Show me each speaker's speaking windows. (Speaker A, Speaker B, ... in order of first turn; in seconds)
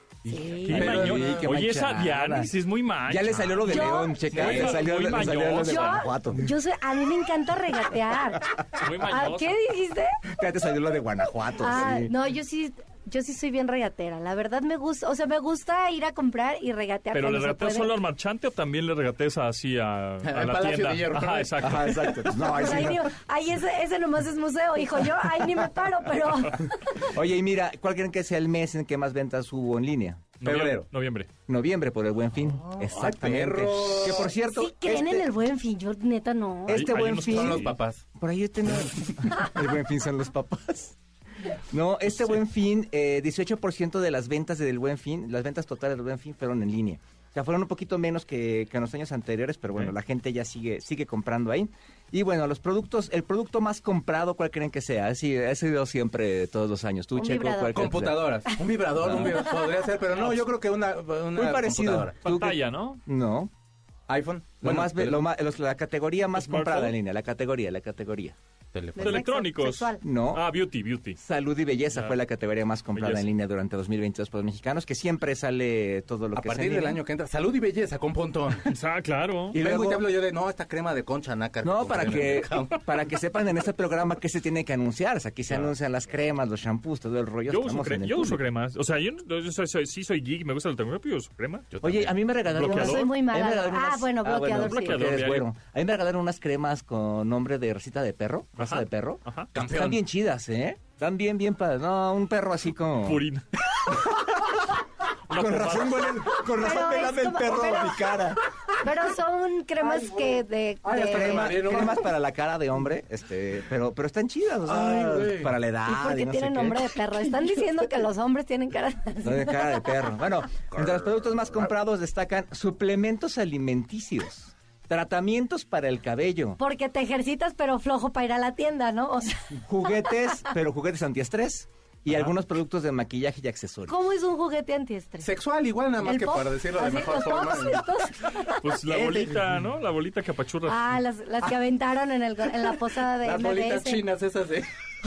Speaker A: 0.2-1.1, 3.6-4.3, 5.6-10.2, 11.6-17.9, 22.3-27.1, 34.4-36.9, 57.1-58.0, 69.0-70.0, 92.6-95.0, 106.5-108.2, 108.8-112.0, 115.8-120.0, 126.6-130.5, 133.9-135.3, 136.0-138.7, 140.7-144.0
Speaker B: 0.6-6.1, 8.7-9.6, 17.1-22.2, 30.4-31.3, 36.7-37.8, 62.2-63.0, 66.3-66.9, 69.0-71.2, 71.9-72.2, 73.0-73.3, 78.6-79.6, 87.5-91.7, 92.4-93.1, 94.5-95.5, 98.6-99.5, 103.0-103.5, 105.3-106.2, 138.5-141.0
Speaker C: 0.6-2.5, 3.1-6.5, 10.3-12.1, 21.6-23.1, 27.0-30.3, 31.5-35.3, 36.7-58.4, 59.0-59.4, 61.3-63.5, 64.6-68.4, 70.0-70.4, 71.2-77.0, 79.5-80.1, 81.6-88.4, 91.8-103.2, 103.9-104.7, 105.3-108.4, 111.0-117.0, 119.2-126.6, 129.6-133.9
Speaker D: 0.7-1.5, 3.1-3.8, 4.3-5.2, 20.2-21.9, 30.4-30.9, 32.6-34.3, 37.2-38.0, 57.7-62.1, 64.1-65.2, 68.7-69.2, 76.3-78.7, 79.5-82.8, 85.5-85.7, 91.7-92.1, 99.5-100.0, 109.8-112.1, 114.7-115.5, 120.7-121.7, 135.2-137.9, 138.9-139.6, 143.1-144.7